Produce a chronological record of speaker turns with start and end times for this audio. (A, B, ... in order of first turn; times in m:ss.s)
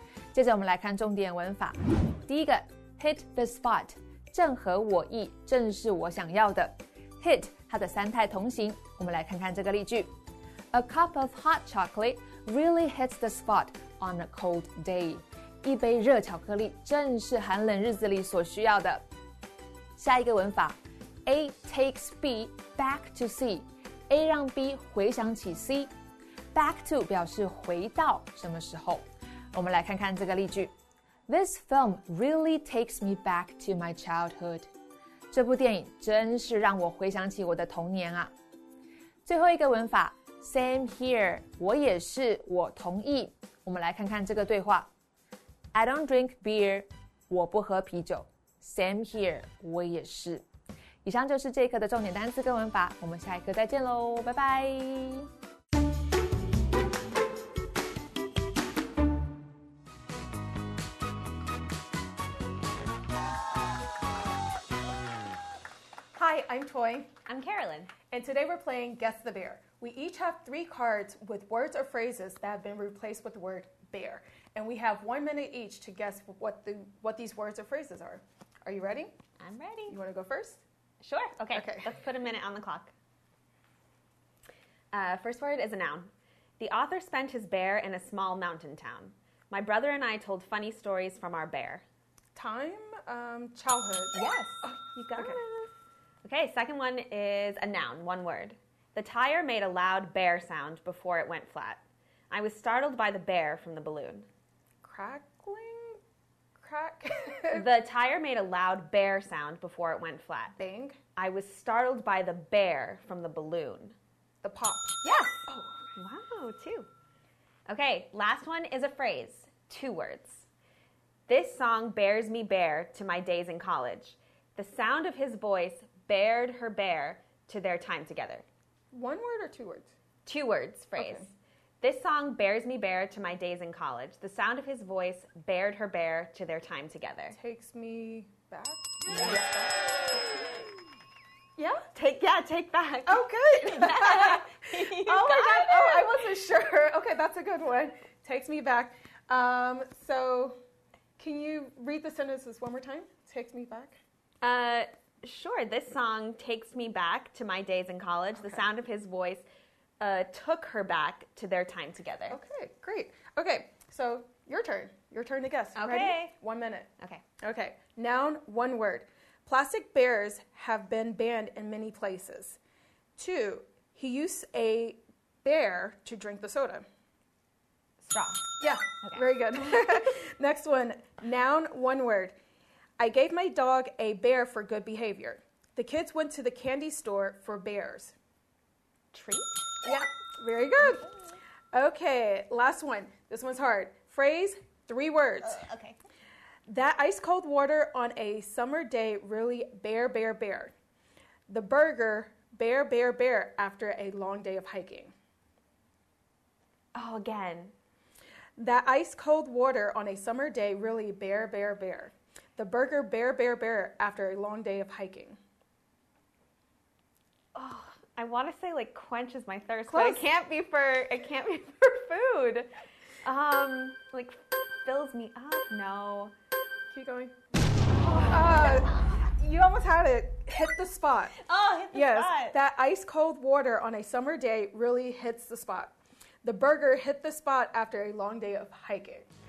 0:00.3-0:10.1 A
0:10.7-0:19.0 A
0:20.0-0:25.9 A
0:26.5-0:30.7 A
0:31.3-0:34.7 A
0:35.3-0:38.3 A
0:39.2-0:44.9 A
0:45.7-0:50.4 A
0:51.0-0:55.3 A
1:06.1-1:07.1 B
1:07.3-1:07.9 C
1:08.1-1:19.1 B
1:19.4-1:20.0 C
1:19.9-1:20.6 B
1:21.0-1:22.9 C
1:21.5-1:21.9 B
1:24.9-1:31.8 C
1:32.3-1:35.4 B
1:34.1-1:35.7 C
1:36.2-1:44.3 C
1:44.8-1:46.0 B
1:46.6-1:47.7 B
1:47.5-1:50.6 C
1:50.6-1:51.0 B
1:51.1-1:53.9 C
1:54.4-1:55.7 B
1:56.0-1:56.9 C
1:57.7-2:00.5 C
2:01.3-2:08.4 C
2:08.9-2:09.9 B
2:10.2-2:11.3 C
2:11.0-2:11.3 B
2:11.8-2:17.4 C
2:17.3-2:20.2 B
2:21.6-2:21.8 B
2:21.9-2:26.3 C
2:23.0-2:30.6 B
2:31.2-2:34.0 B
2:34.4-2:39.4 C
2:38.3-2:38.6 B
2:40.0-2:42.4 C
2:42.3-2:46.9 B
2:45.7-2:46.4 C
2:47.4-2:52.6 B
2:53.2-2:56.8 B
2:58.0-2:59.5 C
2:58.6-3:02.3 B
3:03.0-3:08.1 B
3:09.1-3:09.7 C
3:09.8-3:11.0 B
3:11.7-3:15.6 B
3:15.4-3:16.0 C
3:16.6-3:20.7 B
3:21.5-3:25.1 B
3:26.9-3:27.7 C
3:28.6-3:35.4 B
3:37.5-3:42.7 C
3:39.9-3:40.2 B
3:43.2-3:46.3 C
3:46.9-3:47.3 B
3:48.1-3:48.8 C
3:48.1-3:51.3 B
3:51.4-3:52.6 C
3:51.9-3:59.3 B